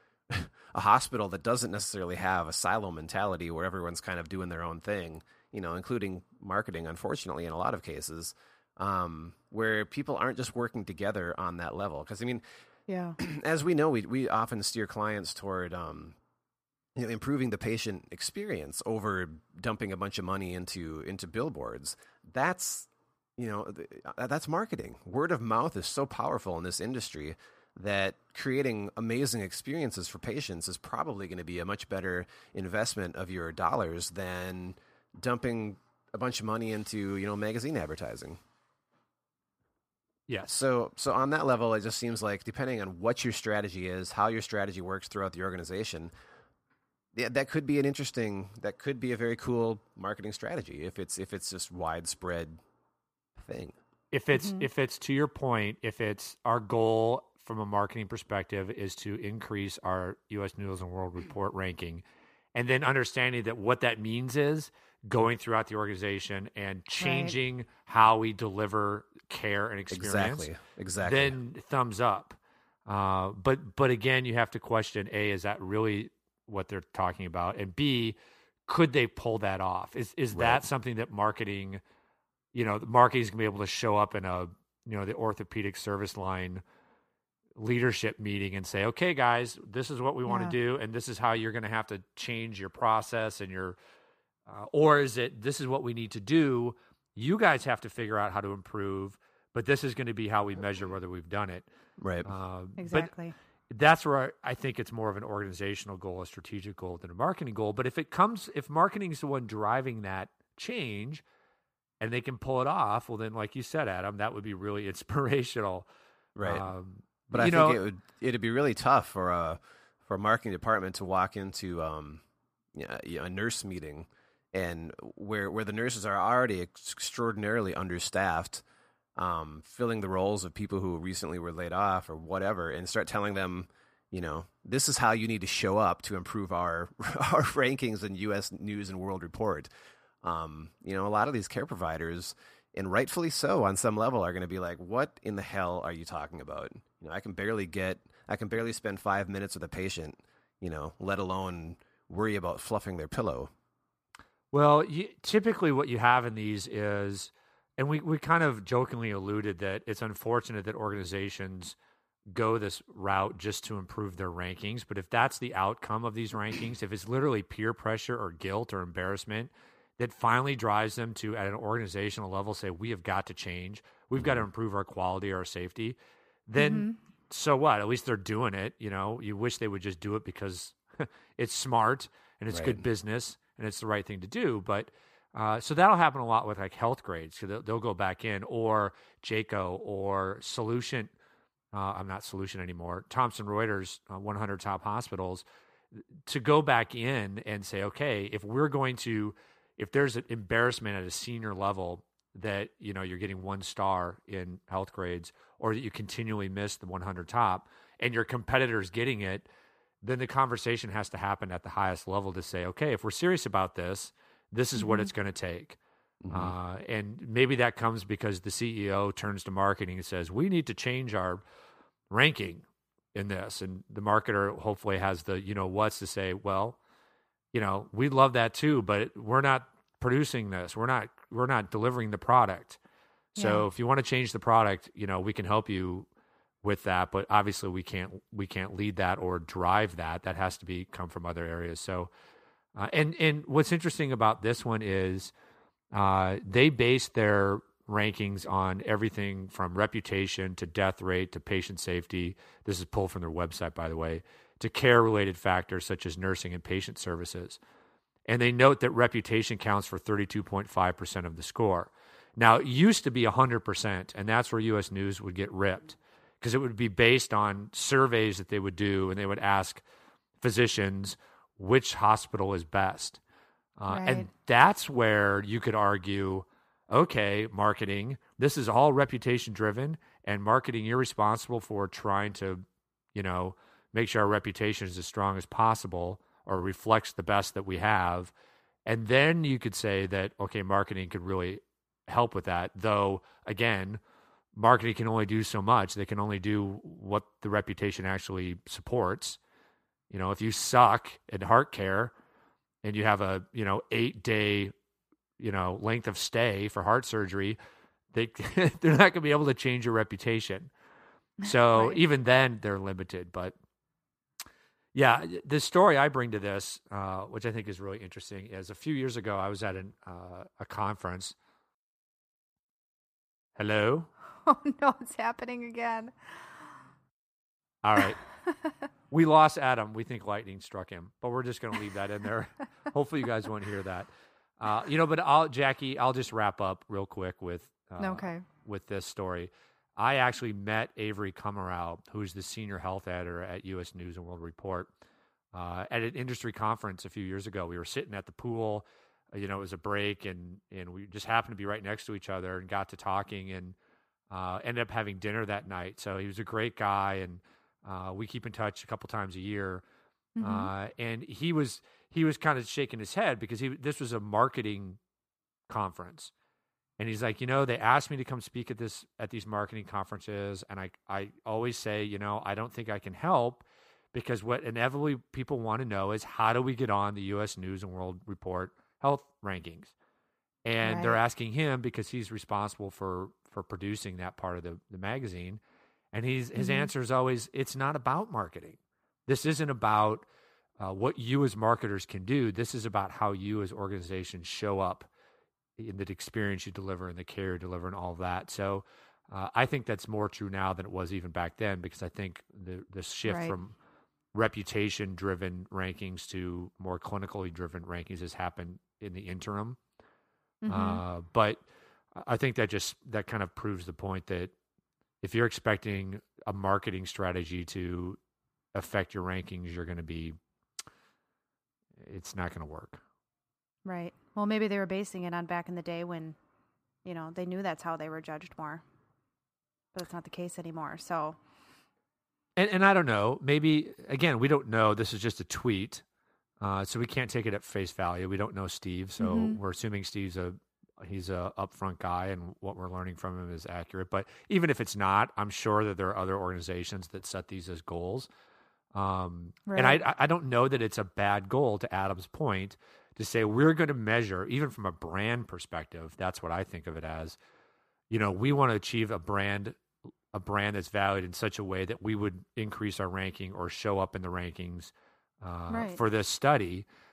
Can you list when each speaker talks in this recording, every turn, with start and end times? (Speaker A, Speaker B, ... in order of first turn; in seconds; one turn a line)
Speaker A: 0.3-12.4
Speaker B: 12.9-13.2
Speaker A: 13.2-16.2
Speaker A: 16.9-38.4
Speaker C: 40.3-40.5
Speaker A: 40.5-46.1
Speaker A: 47.1-52.6
Speaker A: 53.4-53.8
Speaker C: 54.1-62.0
Speaker B: 54.3-54.7
Speaker C: 62.5-78.2
Speaker B: 67.0-67.4
Speaker A: 69.9-71.3
Speaker C: 78.7-81.8
Speaker A: 80.3-80.6
Speaker C: 82.5-86.6
Speaker C: 87.6-93.8
Speaker B: 90.3-90.5
Speaker C: 94.5-101.7
Speaker A: 102.0-102.3
Speaker C: 102.2-103.1
Speaker B: 102.8-103.3
Speaker C: 103.7-111.2
Speaker C: 112.0-115.9
Speaker A: 116.4-116.7
Speaker C: 116.4-117.8
Speaker A: 117.3-122.2
Speaker A: 122.7-128.6
Speaker A: 129.2-139.7
Speaker A: 140.2-153.5
Speaker C: 154.5-161.8
Speaker C: 162.3-191.1
Speaker B: 176.6-177.0
Speaker A: 182.5-182.8
Speaker C: 191.7-195.4
Speaker C: 196.3-209.5
Speaker C: 210.0-215.8
Speaker B: 214.8-215.1
Speaker A: 216.2-216.5
Speaker C: 216.3-221.4
Speaker C: 222.1-226.8
Speaker C: 227.5-232.8
Speaker B: 233.4-233.7
Speaker C: 233.4-236.1
Speaker C: 236.6-242.1
Speaker C: 242.8-245.3
Speaker C: 245.9-257.6
Speaker C: 258.3-269.8
Speaker C: 270.4-273.2
Speaker C: 273.8-282.6
Speaker B: 273.9-274.3
Speaker C: 283.1-288.3
Speaker C: 288.9-294.0
Speaker C: 294.6-299.4
Speaker C: 300.1-302.1
Speaker C: 302.8-304.7
Speaker C: 305.4-307.6
Speaker C: 308.1-310.7
Speaker C: 311.4-313.5
Speaker B: 311.4-312.0
Speaker C: 314.9-321.4
Speaker C: 323.6-324.1
Speaker B: 324.4-326.4
Speaker C: 327.8-328.2
Speaker B: 328.5-328.7
Speaker C: 329.1-334.1
Speaker C: 334.6-344.9
Speaker B: 338.0-338.4
Speaker C: 345.5-353.8
Speaker C: 354.3-359.8
Speaker B: 360.4-360.7
Speaker C: 360.4-365.0
Speaker C: 365.7-366.3
Speaker C: 367.0-379.9
Speaker C: 380.6-385.6
Speaker B: 380.8-381.2
Speaker C: 386.1-390.3
Speaker B: 386.6-386.9
Speaker C: 390.8-395.1
Speaker C: 395.8-403.8
Speaker B: 403.3-403.6
Speaker C: 404.3-409.8
Speaker B: 410.6-411.0
Speaker C: 410.7-411.6
Speaker C: 412.1-414.5
Speaker C: 415.2-418.2
Speaker C: 418.8-420.4
Speaker C: 422.0-423.0
Speaker B: 423.9-426.4
Speaker B: 427.1-428.8
Speaker B: 429.9-431.4
Speaker C: 432.6-436.0
Speaker C: 436.6-448.3
Speaker B: 439.2-439.6
Speaker C: 448.9-457.4
Speaker B: 449.7-450.0
Speaker C: 458.1-459.8
Speaker C: 460.3-466.9
Speaker B: 465.7-466.0